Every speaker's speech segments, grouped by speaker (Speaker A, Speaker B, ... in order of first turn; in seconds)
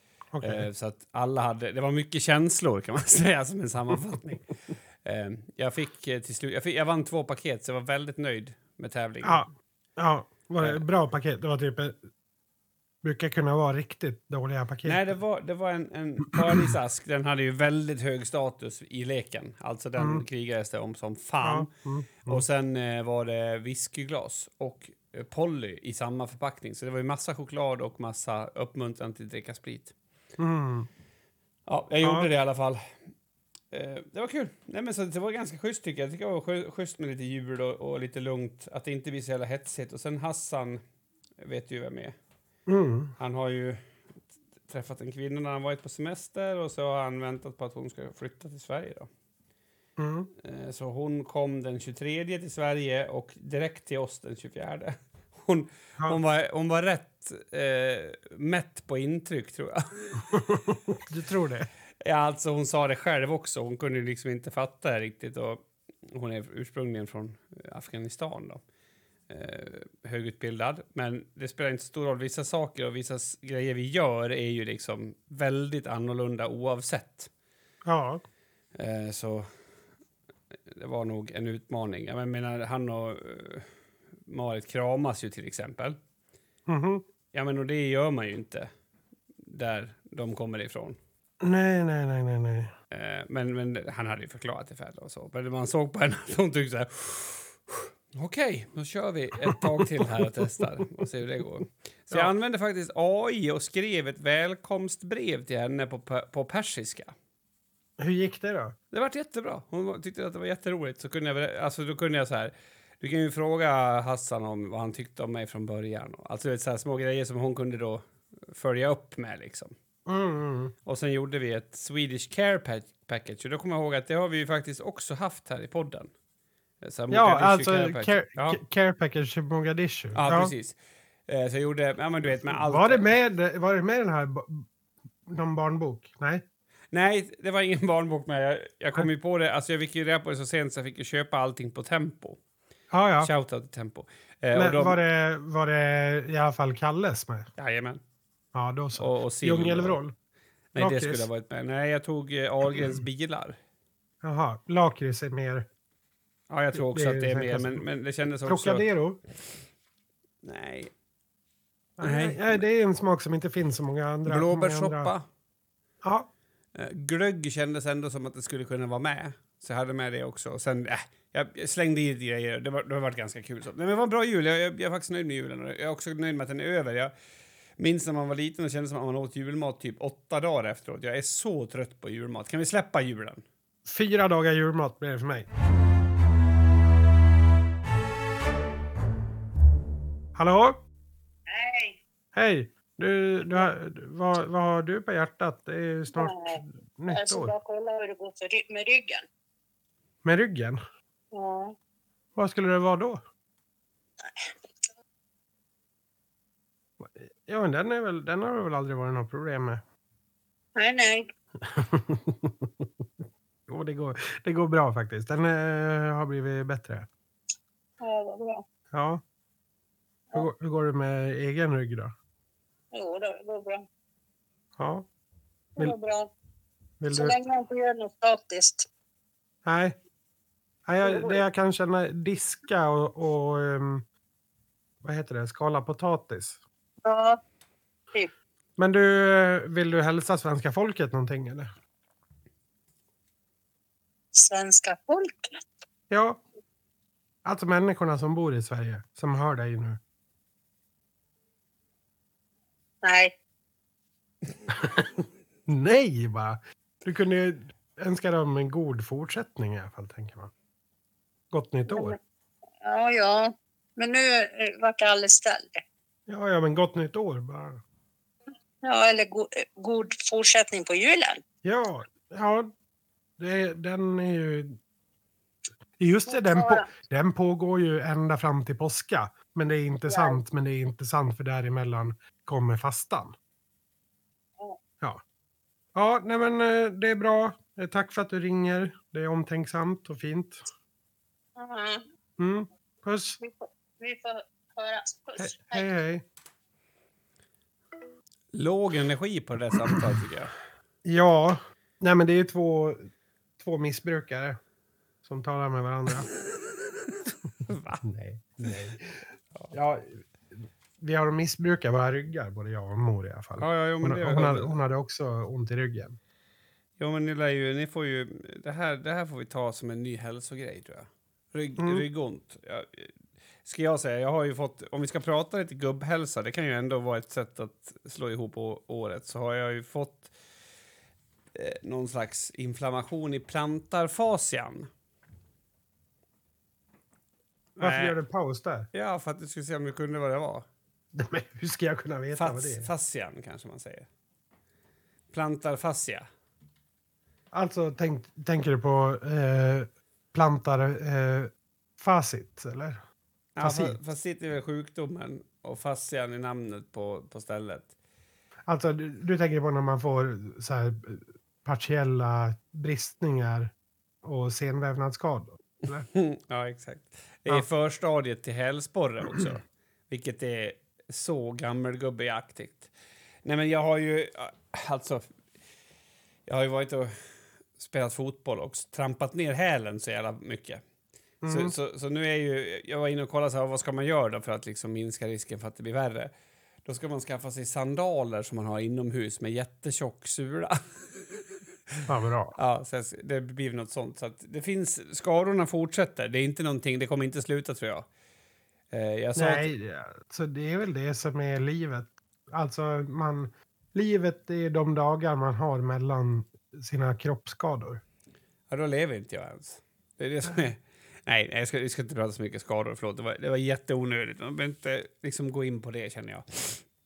Speaker A: 0.3-0.7, 9.2-12.1, 13.0-15.0, 16.3-16.7, 20.0-20.2, 21.4-22.4, 30.4-30.9, 32.0-32.3, 42.7-43.1, 50.0-50.3, 60.3-61.7, 77.8-78.2, 86.7-87.0, 91.4-92.7, 99.5-100.3, 108.0-108.8, 120.1-120.7, 127.1-130.5, 132.4-134.7, 135.3-136.4, 142.9-143.3, 144.5-147.5, 148.5-150.1, 150.8-151.3, 154.2-155.7, 156.7-157.8, 158.5-159.2, 162.0-165.1, 166.0-166.3, 183.9-185.5, 190.3-190.8, 192.3-197.5, 200.2-200.8, 202.4-203.2, 207.0-209.8, 211.6-212.9, 213.7-217.1, 218.9-219.2, 220.3-222.1, 224.8-225.1, 227.0-227.3, 229.7-230.0, 230.9-234.1, 235.0-236.6, 238.8-241.7, 246.1-246.4, 247.4-250.0, 254.7-260.5, 261.5-262.2, 266.3-267.8, 271.6-272.7, 273.4-274.8, 276.0-283.3, 285.9-290.7, 292.4-293.4, 295.4-296.2, 301.1-303.1, 303.6-304.6, 305.2-306.3, 308.0-309.0, 309.7-310.2, 311.0-316.2, 321.8-322.0, 337.8-338.9, 341.1-342.9, 347.5-353.0, 353.6-354.0, 358.7-363.7, 364.2-366.1, 381.4-381.7, 392.1-392.6, 399.4-408.0
Speaker B: 0.4-9.5, 14.8-21.7, 22.2-29.9, 31.7-32.8, 33.7-40.8, 41.4-42.1, 43.2-43.9, 44.7-49.1, 50.4-60.7, 62.0-68.6, 69.3-77.3, 78.8-79.5, 80.7-83.7, 84.3-86.0, 87.3-88.7, 89.5-91.0, 92.9-107.2, 108.9-119.7, 120.9-126.1, 126.8-128.6, 130.1-133.1, 136.9-142.4, 143.2-145.0, 147.6-148.0, 149.0-150.0, 150.7-153.6, 156.5-158.9, 160.4-160.9, 162.0-162.6, 164.3-165.3, 166.8-177.1, 177.8-183.4, 298.5-300.5, 306.5-308.1, 313.6-314.7, 317.0-323.1, 323.6-330.3, 331.6-334.9, 337.8-338.2, 338.9-340.7, 342.4-344.1, 345.3-346.3, 353.6-357.9, 366.1-372.9, 373.4-375.3, 376.5-377.1, 377.8-380.8, 381.5-386.3, 386.9-390.8, 392.6-398.1, 398.9-399.7, 408.7-416.8
Speaker C: 191.5-192.0, 196.1-199.2, 201.3-201.8, 210.8-211.3, 218.0-218.6, 222.9-223.8, 225.8-226.3, 227.1-228.9, 231.0-231.4, 237.0-237.4, 244.3-245.5, 253.0-253.3, 261.9-262.2, 262.8-265.8, 268.8-271.4, 276.3-276.9, 280.1-280.4, 291.6-292.0, 293.4-295.9